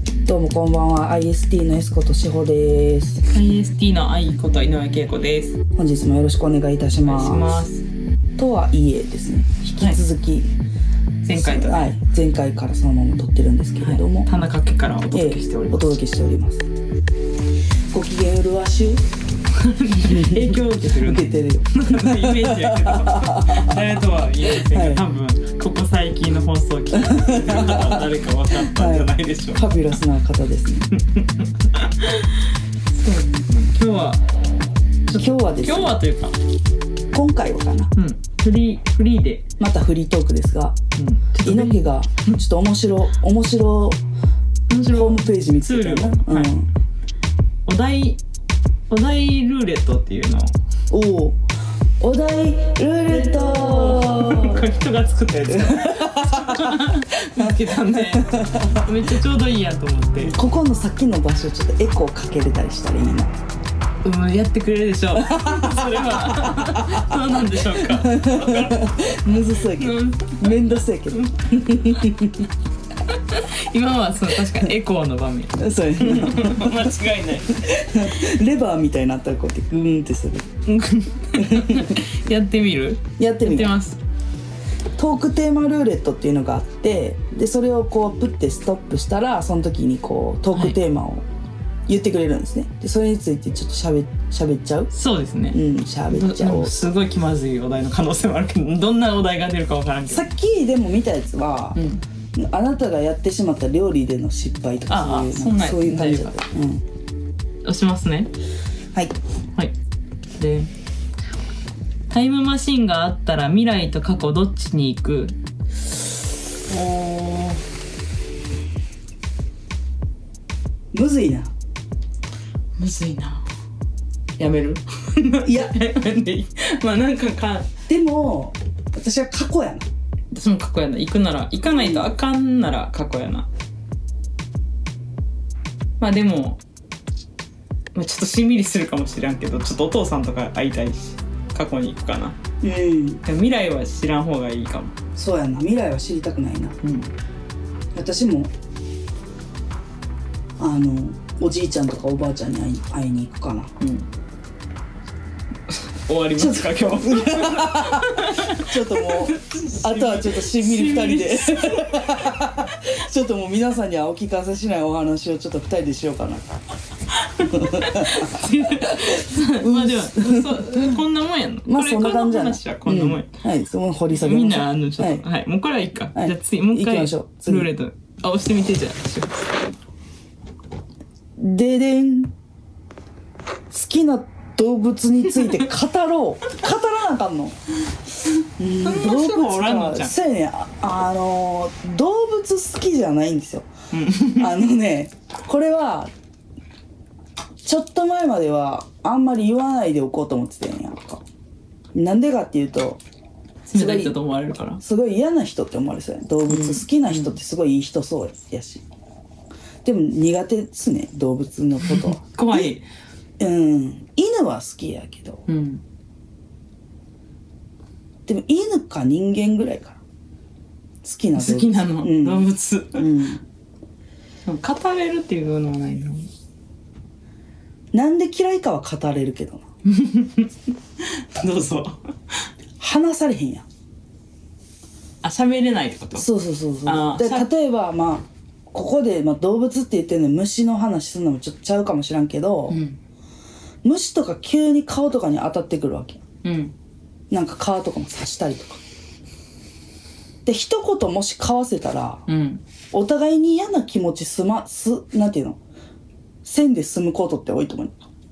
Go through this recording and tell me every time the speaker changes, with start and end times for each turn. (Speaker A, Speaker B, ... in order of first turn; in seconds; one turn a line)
Speaker A: 0.2-3.2
Speaker B: 3.3-5.6
Speaker A: 5.8-7.7
Speaker B: 7.0-7.8
Speaker A: 8.4-10.5
Speaker B: 11.2-11.9
Speaker A: 11.3-14.3
Speaker B: 13.8-16.0
Speaker A: 15.1-16.7
Speaker A: 17.9-19.0
Speaker B: 19.5-29.8
Speaker A: 20.0-23.8
Speaker A: 24.6-25.0
Speaker A: 26.9-28.1
Speaker A: 28.6-30.9
Speaker B: 30.9-34.2
Speaker B: 35.1-36.4
Speaker A: 35.2-36.0
Speaker A: 37.1-37.9
Speaker B: 38.0-39.5
Speaker A: 39.6-40.8
Speaker B: 41.0-42.4
Speaker A: 41.4-44.0
Speaker B: 44.7-46.5
Speaker A: 44.9-46.7
Speaker B: 47.7-48.2
Speaker B: 48.9-50.5
Speaker A: 50.9-51.4
Speaker A: 52.0-54.6
Speaker B: 53.1-60.4
Speaker A: 55.5-56.9
Speaker A: 58.1-58.9
Speaker A: 60.2-63.3
Speaker B: 64.0-71.6
Speaker A: 65.2-72.5
Speaker B: 73.0-77.6
Speaker A: 75.6-76.9
Speaker A: 77.5-80.5
Speaker B: 80.7-84.0
Speaker A: 81.3-82.0
Speaker A: 83.2-83.8
Speaker A: 85.0-91.2
Speaker B: 90.5-90.8
Speaker A: 91.9-94.9
Speaker B: 94.9-100.2
Speaker A: 95.5-96.8
Speaker A: 100.1-101.8
Speaker B: 101.8-102.0
Speaker A: 102.3-106.8
Speaker B: 104.9-106.4
Speaker B: 107.6-108.3
Speaker B: 110.4-110.7
Speaker B: 112.1-115.4
Speaker B: 116.7-117.6
Speaker A: 120.9-121.5
Speaker B: 122.8-123.5
Speaker B: 124.4-127.7
Speaker A: 125.4-125.8
Speaker A: 127.9-129.9
Speaker B: 130.3-133.5
Speaker A: 131.8-132.1
Speaker B: 136.0-136.6
Speaker B: 137.9-142.4
Speaker A: 142.6-143.2
Speaker B: 143.2-145.0
Speaker A: 145.2-146.8
Speaker B: 146.8-147.1
Speaker A: 147.9-148.5
Speaker A: 150.6-153.7
Speaker B: 153.8-154.1
Speaker B: 155.7-162.9
Speaker A: 156.4-166.6
Speaker B: 167.1-173.3
Speaker A: 167.4-171.0
Speaker A: 171.7-175.2
Speaker B: 174.1-179.7
Speaker A: 176.1-177.7
Speaker A: 181.4-182.3
Speaker A: 183.7-187.6
Speaker A: 188.6-193.7
Speaker B: 188.8-190.1
Speaker B: 193.9-194.6
Speaker A: 194.2-196.1
Speaker A: 197.6-201.2
Speaker A: 201.9-203.0
Speaker B: 203.7-204.8
Speaker A: 203.7-204.2
Speaker A: 204.8-208.8
Speaker B: 206.5-207.3
Speaker A: 209.8-212.8
Speaker B: 211.8-212.8
Speaker A: 213.4-215.4
Speaker B: 215.5-215.8
Speaker A: 218.2-220.0
Speaker A: 221.0-223.4
Speaker B: 221.3-223.1
Speaker B: 224.4-226.3
Speaker A: 227.9-229.6
Speaker B: 229.8-232.4
Speaker A: 232.8-233.6
Speaker B: 235.2-236.3
Speaker A: 236.2-242.8
Speaker B: 236.8-237.5
Speaker B: 242.7-243.0
Speaker A: 243.8-246.2
Speaker B: 246.4-246.7
Speaker A: 247.3-248.8
Speaker A: 250.4-252.2
Speaker B: 252.3-252.6
Speaker A: 252.9-255.6
Speaker A: 256.4-258.0